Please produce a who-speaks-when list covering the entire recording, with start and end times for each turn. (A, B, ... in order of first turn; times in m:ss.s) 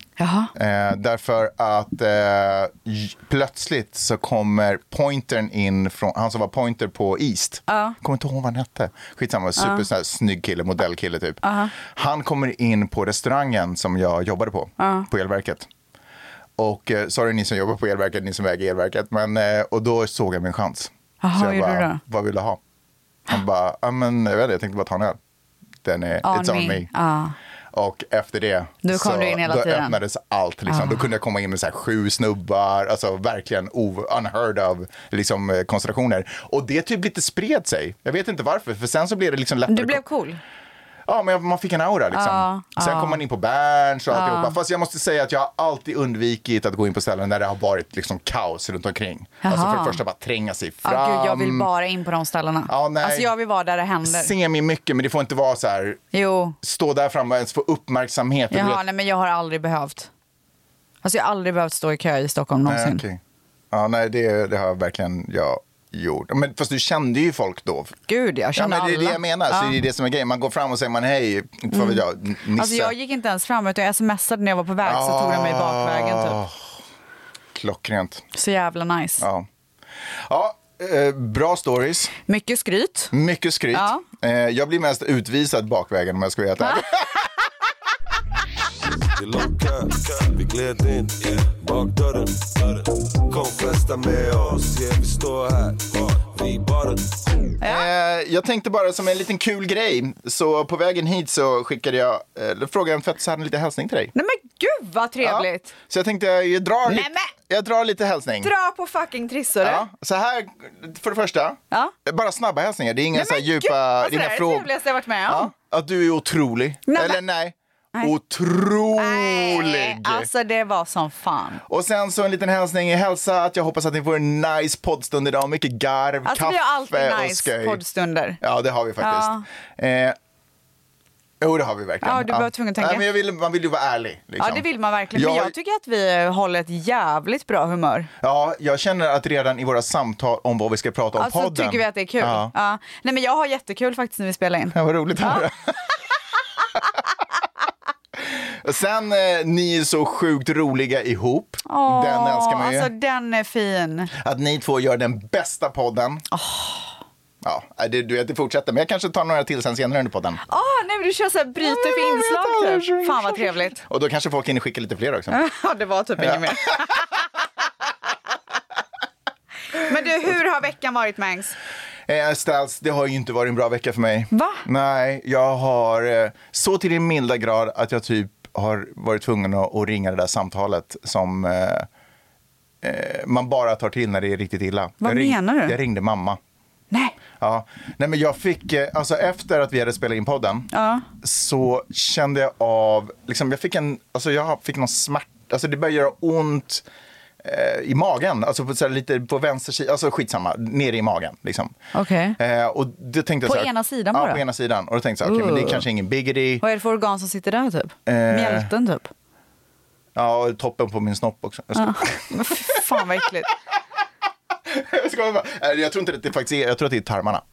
0:00.2-0:00.5 A
0:00.6-0:15.7 B
0:07.7-0:08.0 A
0:09.6-0:09.8 A
0:11.4-0:11.7 A
0:14.8-0:15.1 A
0:16.6-0:22.6 B
0:21.2-0:22.0 A
0:23.3-0:25.2 B
0:25.8-0:26.9 B
0:26.2-0:27.4 A
0:27.7-0:40.0 B
0:28.8-0:30.0 A
0:30.7-0:31.0 A
0:39.7-0:40.4 A
0:41.1-0:51.7 B
0:42.1-0:43.2 A
0:44.1-0:44.6 A
0:49.4-0:50.0 A
0:50.8-0:54.3 A
0:52.7-0:53.3 B
0:54.0-0:56.0 B
0:56.1-0:56.6 A
0:56.6-0:58.8 B
0:58.5-1:00.1 A
1:01.0-1:03.0 A
1:02.7-1:03.2 B
1:03.7-1:08.0 B
1:08.1-1:09.8 A
1:08.6-1:13.0 B
1:11.7-1:12.0 A
1:12.6-1:16.4 A
1:14.8-1:16.7 B
1:17.5-1:18.2 B
1:18.3-1:19.3 A
1:19.2-1:19.5 B
1:20.3-1:22.1 B
1:22.3-1:23.1 A
1:23.1-1:27.3 B
1:23.7-1:24.0 A
1:29.0-1:37.4 C
1:37.6-1:37.9 A
1:37.6-1:44.1 B
1:44.2-1:45.7 A
1:45.2-1:48.5 B
1:46.9-1:47.3 A
1:48.4-1:49.8 A
1:49.6-1:54.7 B
1:53.1-1:55.5 A
1:55.3-2:00.3 B
1:56.9-1:57.2 A
1:59.0-2:01.6 A
2:01.7-2:07.8 B
2:06.2-2:08.4 A
2:08.4-2:10.2 B
2:09.0-2:09.4 A
2:11.4-2:15.5 B
2:12.0-2:13.1 A
2:14.4-2:18.1 A
2:18.2-2:22.5 B
2:21.2-2:25.5 A
2:24.7-2:25.8 B
2:28.3-2:32.9 B
2:31.7-2:34.1 A
2:34.1-2:36.2 B
2:36.3-2:36.9 A
2:37.4-2:40.4 B
2:40.5-2:43.8 A
2:41.6-2:45.4 B
2:45.3-2:47.2 A
2:46.2-2:46.9 B
2:49.7-2:51.6 A
2:52.1-3:01.9 B
2:54.3-2:54.6 A
3:02.8-3:06.4 B
3:05.0-3:05.8 A
3:07.4-3:16.8 B
3:10.7-3:11.1 A
3:17.4-3:21.8 B
3:21.9-3:22.4 A
3:22.4-3:26.6 B
3:23.4-3:24.4 A
3:25.2-3:25.9 A
3:26.6-3:29.1 A
3:28.1-3:28.7 B
3:30.2-3:33.0 B
3:31.8-3:33.5 A
3:34.7-3:37.4 B